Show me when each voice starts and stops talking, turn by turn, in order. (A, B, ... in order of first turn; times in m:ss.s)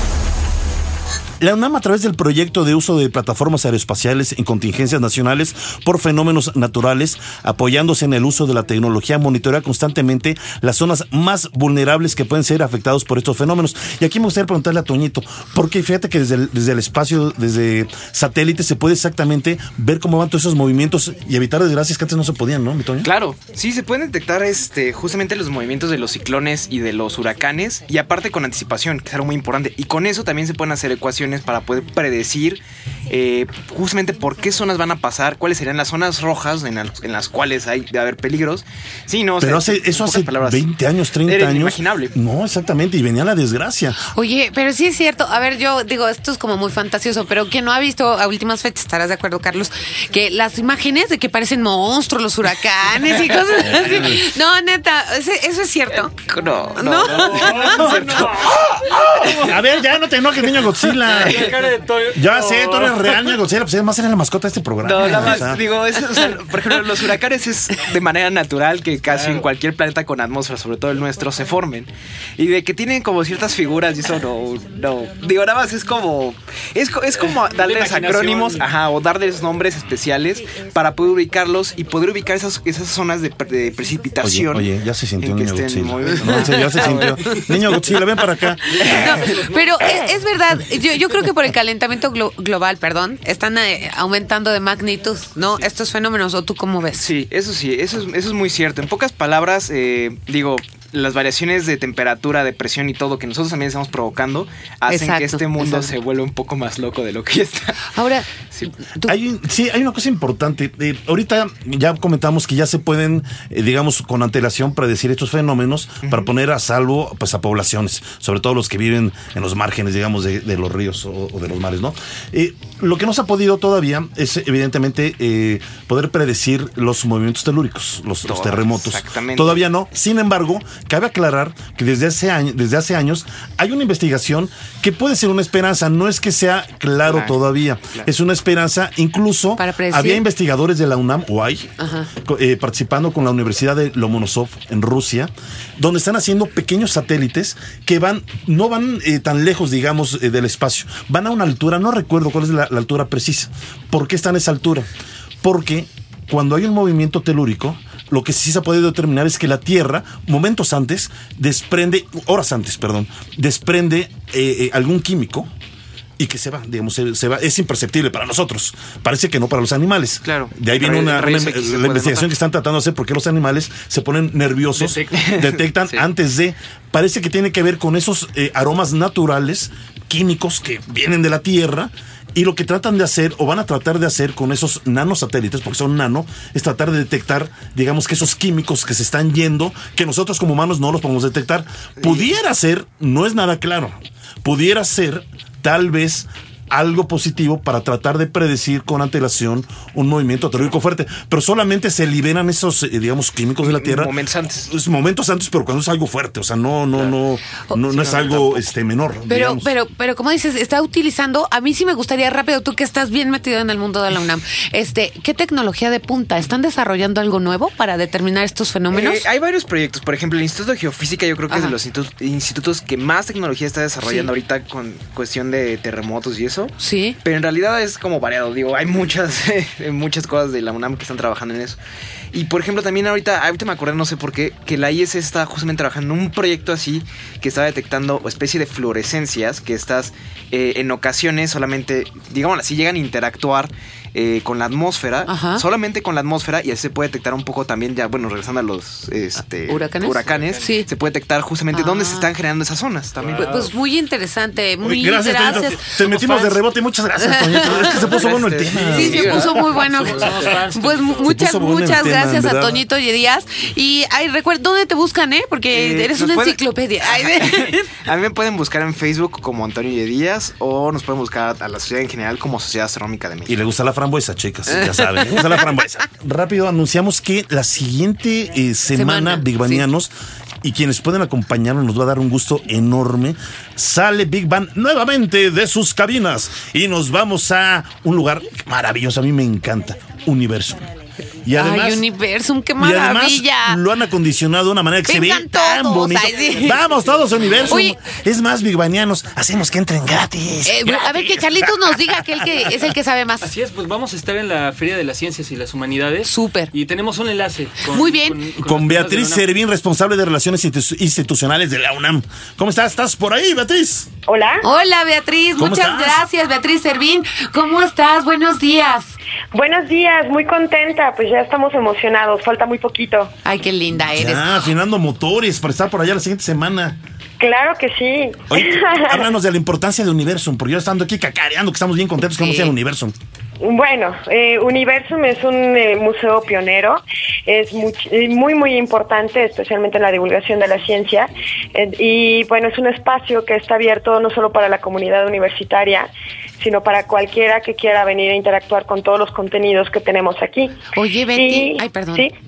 0:01.4-0:23.1 A
0:23.0-0:40.6 B
0:39.4-0:44.0 A
0:41.2-0:42.1 B
0:44.0-0:57.9 C
0:53.6-0:54.3 A
0:56.3-0:58.4 B
0:57.1-0:59.5 D
0:57.6-1:01.5 A
1:00.8-1:03.4 D
1:02.1-1:05.6 A
1:04.8-1:27.8 B
1:09.1-1:09.4 D
1:17.1-1:18.7 D
1:24.2-1:29.1 A
1:26.9-1:27.1 D
1:28.7-1:37.1 C
1:28.8-1:30.0 B
1:37.0-1:47.8 B
1:44.9-1:45.9 C
1:47.8-1:49.1 C
1:48.5-1:48.7 B
1:49.0-2:34.9 A
1:56.0-1:56.3 B
2:08.2-2:09.6 B
2:17.0-2:17.3 B
2:19.6-2:20.2 C
2:21.8-2:22.1 C
2:35.4-2:45.5 A
2:46.2-3:29.7 A
2:50.2-2:52.3 B
2:54.8-2:56.1 B
3:23.6-3:24.7 B
3:27.9-3:28.6 B
3:29.3-3:39.2 C
3:38.9-3:51.8 B
3:41.5-3:41.7 C
3:46.8-3:47.2 C
3:52.3-4:13.7 B
4:05.2-4:05.6 C
4:09.7-4:10.9 C
4:10.3-4:10.6 D
4:11.7-4:12.3 C
4:13.2-4:13.7 D
4:13.3-4:16.6 C
4:14.8-4:19.4 A
4:17.2-4:17.8 C
4:17.7-4:19.5 B
4:18.1-4:21.4 D
4:18.9-4:27.9 C
4:21.2-4:22.8 A
4:25.7-4:33.6 B
4:33.5-4:40.1 A
4:34.7-4:35.6 C
4:38.9-4:39.8 C
4:40.6-4:50.9 A
4:51.4-4:52.0 A
4:51.5-4:53.8 C
4:52.8-5:02.7 A
4:55.0-4:56.9 C
4:57.0-4:57.6 D
4:57.6-4:58.0 C
5:00.6-5:03.5 C
5:03.4-5:09.5 D
5:06.2-5:06.7 C
5:07.8-5:08.4 C
5:08.6-5:14.1 A
5:14.3-5:14.6 E
5:14.6-5:19.1 C
5:15.6-5:16.2 A
5:19.5-5:23.3 E
5:23.4-5:24.6 C
5:24.2-5:27.0 A
5:27.4-5:29.2 E
5:28.5-5:33.1 A
5:32.4-5:32.7 C
5:33.6-5:50.8 E
5:50.9-5:52.3 C
5:51.3-5:52.3 E